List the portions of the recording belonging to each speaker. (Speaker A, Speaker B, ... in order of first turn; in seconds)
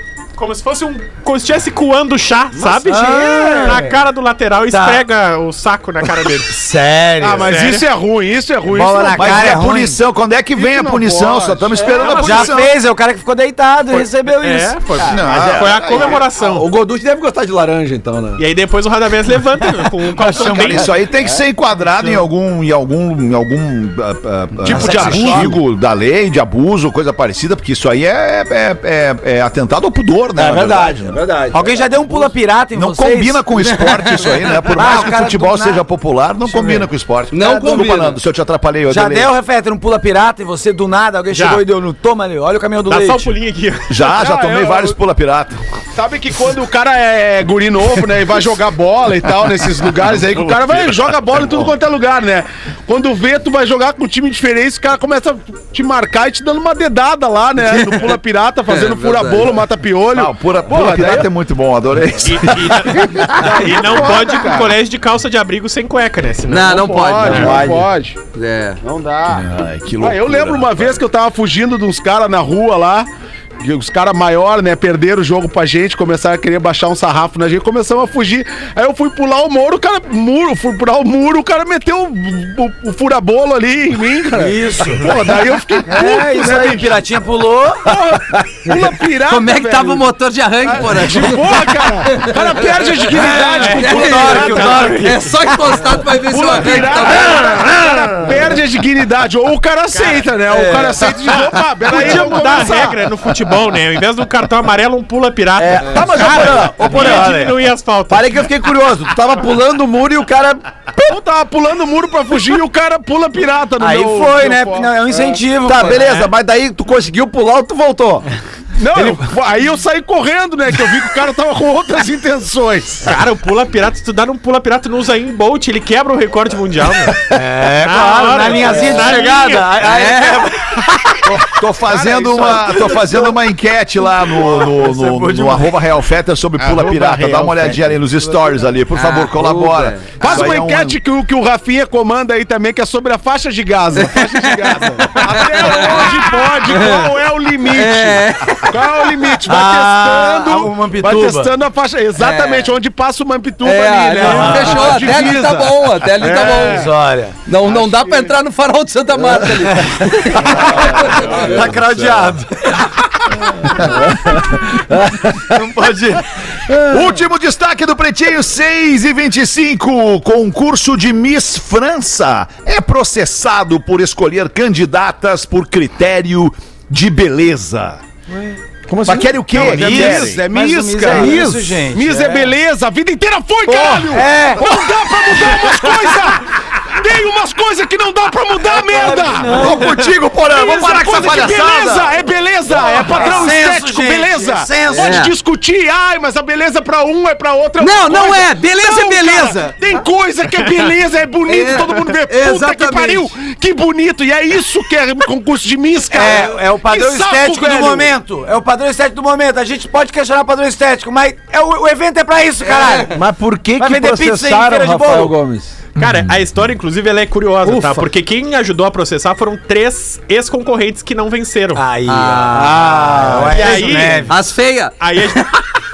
Speaker A: 0.4-6.5, 7.5-7.9, 11.8-12.7, 13.9-16.7, 18.4-20.9, 41.3-41.6, 42.9-44.0, 62.2-67.6, 93.6-95.3, 97.2-98.2, 99.9-100.3, 101.2-108.4, 123.0-127.2, 127.7-129.8, 216.0-221.8, 223.5-224.3, 225.0-225.5
Speaker B: 2.6-3.8, 7.2-9.6, 10.6-12.0, 24.6-25.6, 44.1-45.0, 46.0-61.3, 62.9-64.8, 66.8-68.2, 68.8-69.5, 70.0-73.1, 73.6-87.0, 87.8-90.1, 90.6-95.0, 96.1-103.0, 106.2-106.6, 111.1-115.4, 118.8-123.1, 131.9-133.1, 136.6-137.8, 140.2-156.9, 157.7-158.3, 160.5-161.8, 179.6-189.8, 190.3-208.1
Speaker C: 2.9-4.0, 4.7-5.0, 6.5-7.6, 8.7-10.0, 12.1-15.0, 24.7-25.6, 31.5-33.4, 34.7-35.8, 36.5-36.8, 38.9-43.3, 84.3-85.1, 85.9-88.0, 93.1-95.3, 100.5-100.9, 113.8-116.1, 118.9-119.3, 127.3-130.8, 134.4-135.7, 149.4-151.5, 154.2-154.9, 156.5-157.4, 159.7-162.9, 163.6-163.9, 165.5-166.2, 179.5-182.5, 183.9-184.9, 188.7-190.0, 192.9-195.3, 206.1-213.1, 213.8-215.4, 221.8-224.4
Speaker D: 9.2-12.8, 15.0-16.2, 20.2-31.2, 32.7-39.3, 43.9-45.6, 60.1-63.1, 69.3-71.0, 131.2-141.0, 166.7-178.0, 179.1-180.4, 189.5-192.2, 216.0-216.3
Speaker E: 15.0-18.4, 20.5-21.4, 30.4-32.3, 67.3-67.9, 105.6-111.2, 115.6-118.3, 164.9-165.4, 178.9-180.2, 213.1-215.8, 222.5-224.0
Speaker F: 33.6-34.6, 37.3-38.2, 57.7-59.6, 66.5-67.8, 68.3-68.8, 89.2-97.7, 129.8-130.7, 138.9-140.5, 144.0-149.1, 152.2-152.7, 153.6-156.9, 157.5-161.4, 194.9-195.3, 197.8-200.0, 201.5-203.3, 212.7-213.1, 222.1-225.5